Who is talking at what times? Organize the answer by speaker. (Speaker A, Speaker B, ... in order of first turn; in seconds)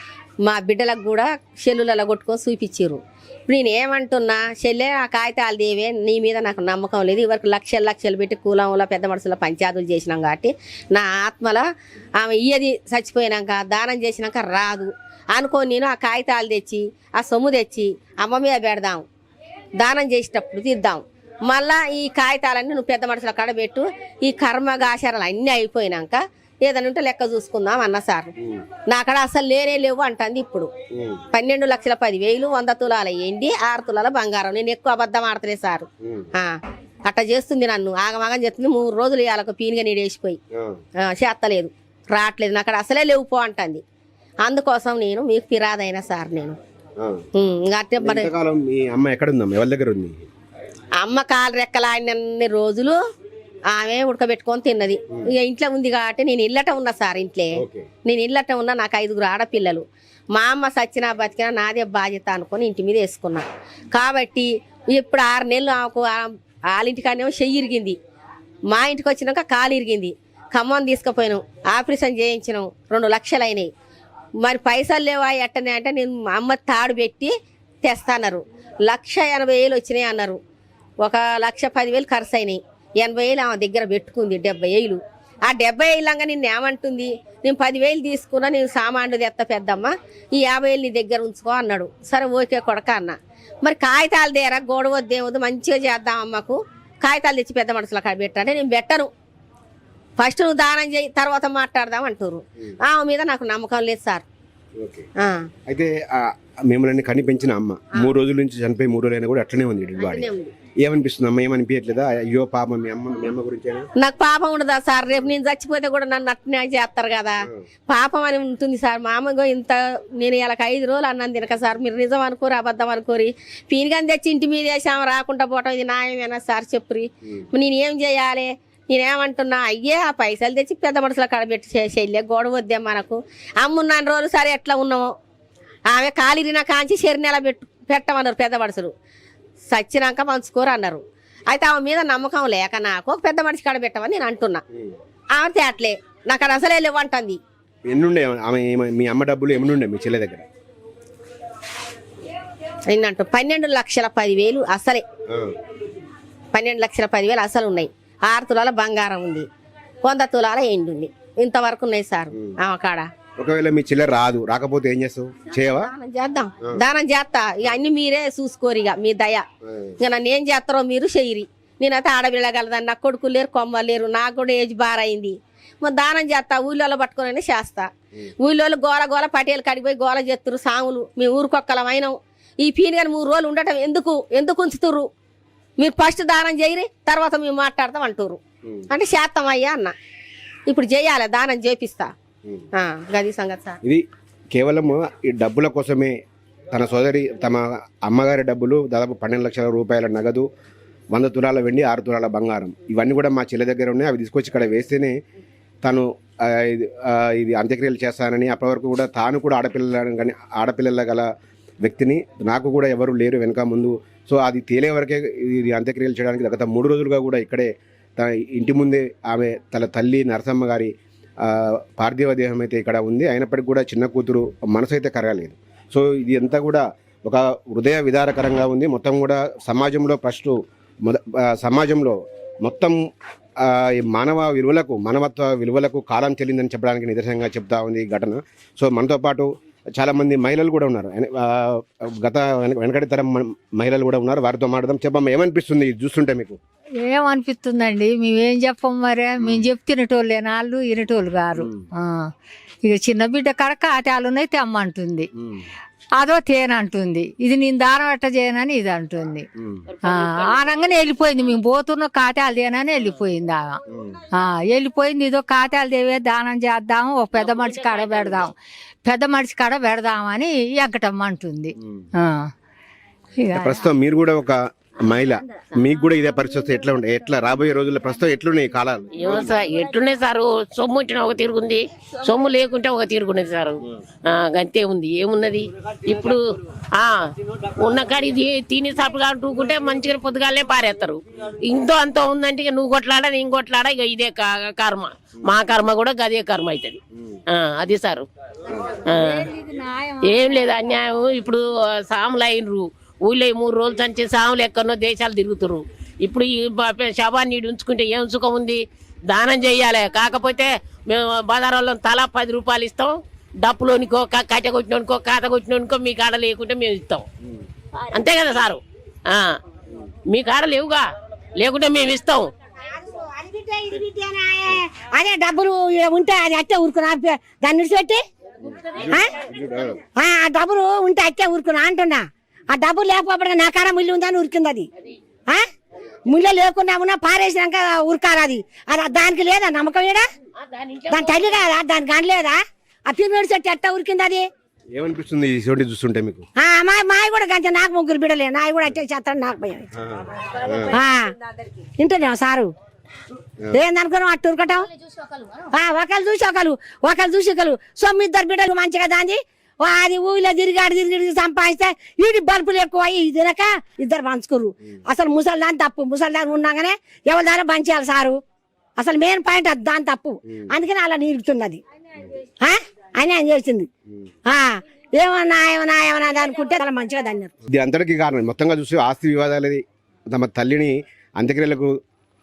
Speaker A: 0.5-11.6, 12.2-19.0, 19.8-28.3, 28.9-30.7, 31.3-36.5, 37.1-40.4, 41.0-43.8, 44.4-46.6, 47.4-48.3, 51.0-53.0, 53.7-57.5, 58.1-68.0, 68.7-73.7, 74.4-77.3, 77.8-80.4, 81.0-99.1, 100.2-104.2, 105.2-105.5, 110.0-110.5, 114.0-117.4, 117.9-135.1, 135.9-138.9, 139.7-144.6, 145.3-147.4, 152.9-155.0, 156.5-159.4, 160.0-163.1, 165.6-169.4, 170.0-177.9, 178.4-185.1, 185.8-188.4, 188.9-189.9, 190.7-192.1, 192.8-193.8
Speaker B: 30.9-31.2, 36.0-36.3, 40.6-40.8, 47.0-47.2, 48.0-50.2, 57.6-57.9, 104.8-105.1, 105.7-110.3, 110.8-113.9, 147.9-150.4, 163.4-165.9, 193.8-196.1, 196.7-200.4, 201.1-205.2, 205.8-211.3, 211.8-233.0, 233.6-246.6, 249.4-249.6, 251.6-251.8, 259.6-259.8, 273.6-279.5, 298.7-299.0, 329.0-330.0, 344.9-346.5, 350.0-350.9, 377.7-381.9
Speaker C: 247.0-252.3, 252.8-255.3, 256.2-259.4, 260.1-263.8, 264.4-268.5, 269.1-272.5, 273.4-273.8, 299.1-300.6
Speaker D: 259.9-261.5, 267.3-268.5, 279.2-286.4, 287.8-297.0, 297.5-298.3, 299.1-299.5, 300.2-317.2, 318.1-319.6, 320.3-321.1, 321.6-322.5, 340.6-341.6
Speaker E: 323.1-328.2, 330.1-334.9, 336.3-340.2, 341.1-344.5, 346.6-349.9, 350.9-351.3, 352.0-352.7, 353.7-354.9, 355.7-368.4, 369.0-371.8, 372.6-373.9, 374.4-377.5